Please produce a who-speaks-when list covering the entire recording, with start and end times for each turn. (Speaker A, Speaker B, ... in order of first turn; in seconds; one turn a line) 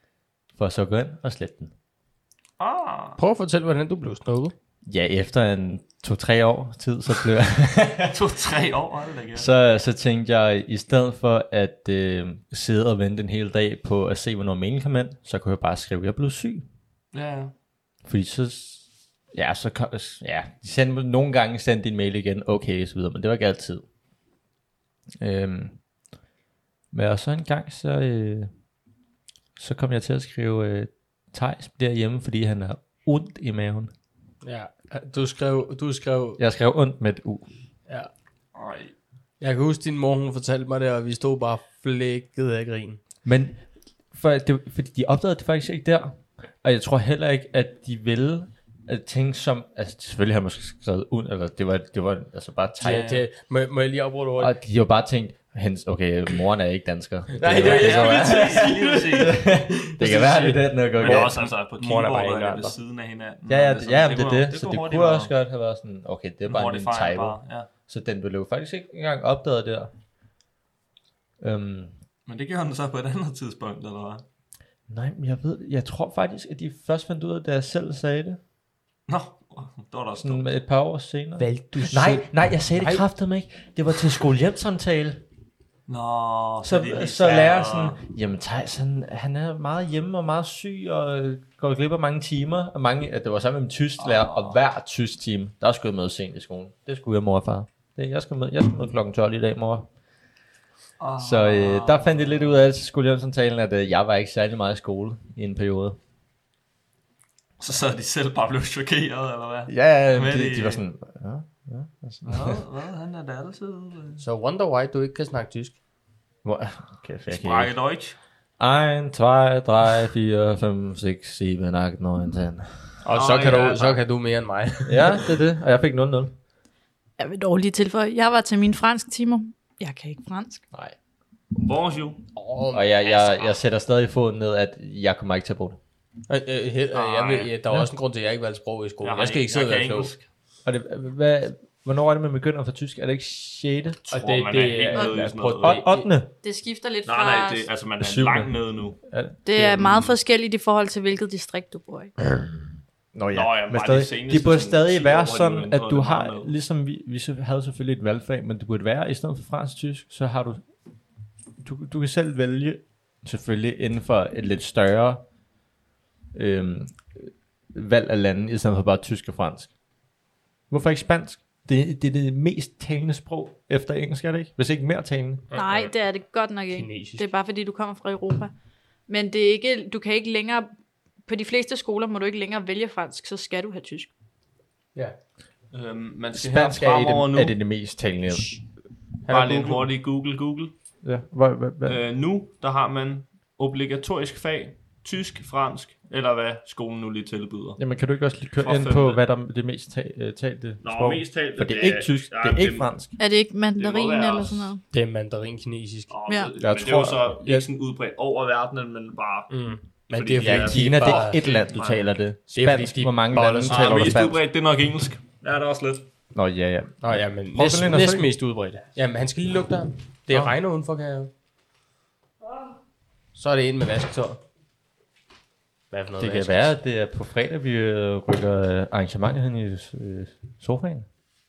Speaker A: 0.6-1.7
Speaker B: 2.6-3.2
Speaker C: 3.2-4.5
Speaker A: 4.8-8.1
Speaker B: 8.0-9.5
Speaker A: 9.3-16.6
Speaker B: 17.1-17.5
Speaker A: 18.0-23.8
Speaker A: 25.2-25.8
Speaker A: 26.9-28.5
Speaker A: 29.6-33.9
Speaker C: 34.4-36.4
Speaker A: 36.4-37.5
Speaker B: 38.5-38.9
Speaker C: 39.4-43.0
Speaker A: 43.2-43.6
Speaker A: 44.1-53.1
Speaker C: 52.8-54.5
Speaker B: 52.8-53.2
Speaker A: 54.4-61.5
Speaker C: 57.4-59.3
Speaker B: 57.5-65.3
Speaker C: 61.0-62.7
Speaker A: 63.5-69.9
Speaker B: 66.4-67.7
Speaker A: 71.4-71.9
Speaker B: 72.3-74.2
Speaker A: 74.9-78.4
Speaker B: 79.1-80.5
Speaker A: 80.2-85.2
Speaker C: 81.4-83.0
Speaker B: 85.9-88.0
Speaker A: 86.6-99.9
Speaker B: 94.0-94.6
Speaker B: 101.0-102.7
Speaker A: 101.2-106.0
Speaker B: 107.6-110.8
Speaker A: 109.7-112.6
Speaker B: 112.2-114.2
Speaker C: 114.2-115.8
Speaker A: 116.4-117.7
Speaker B: 117.3-118.2
Speaker A: 118.6-122.7
Speaker C: 123.0-125.2
Speaker B: 123.0-124.0
Speaker A: 124.8-126.3
Speaker D: 127.2-130.6
Speaker B: 131.5-132.2
Speaker C: 132.3-133.5
Speaker A: 132.7-135.8
Speaker C: 136.3-140.1
Speaker B: 136.9-137.5
Speaker B: 139.0-140.2
Speaker A: 140.6-144.0
Speaker B: 144.1-145.8
Speaker C: 144.1-146.1
Speaker A: 145.5-146.3
Speaker D: 146.4-147.7
Speaker B: 147.0-149.0
Speaker A: 148.0-150.1
Speaker D: 149.4-152.1
Speaker A: 153.1-160.6
Speaker B: 153.3-156.5
Speaker A: 161.6-165.2
Speaker A: 166.3-169.7
Speaker A: 170.7-175.4
Speaker C: 175.5-175.9
Speaker D: 175.5-178.5
Speaker C: 176.7-177.3
Speaker D: 179.1-180.7
Speaker D: 181.2-184.1
Speaker B: 185.7-187.6
Speaker A: 186.3-188.6
Speaker C: 189.2-189.9
Speaker B: 189.3-190.7
Speaker A: 191.0-192.0
Speaker B: 191.8-197.8
Speaker A: 197.8-203.2
Speaker B: 198.6-199.2
Speaker B: 200.8-202.9
Speaker D: 203.2-204.8
Speaker B: 203.8-204.7
Speaker C: 204.9-206.1
Speaker B: 206.1-209.5
Speaker A: 206.6-207.6
Speaker C: 209.5-211.4
Speaker B: 210.1-212.1
Speaker A: 210.4-214.4
Speaker C: 212.5-214.1
Speaker B: 213.6-216.1
Speaker A: 216.3-218.3
Speaker C: 217.0-221.3
Speaker B: 222.4-222.7
Speaker C: 223.3-224.4
Speaker C: 225.9-226.7
Speaker A: 226.2-231.1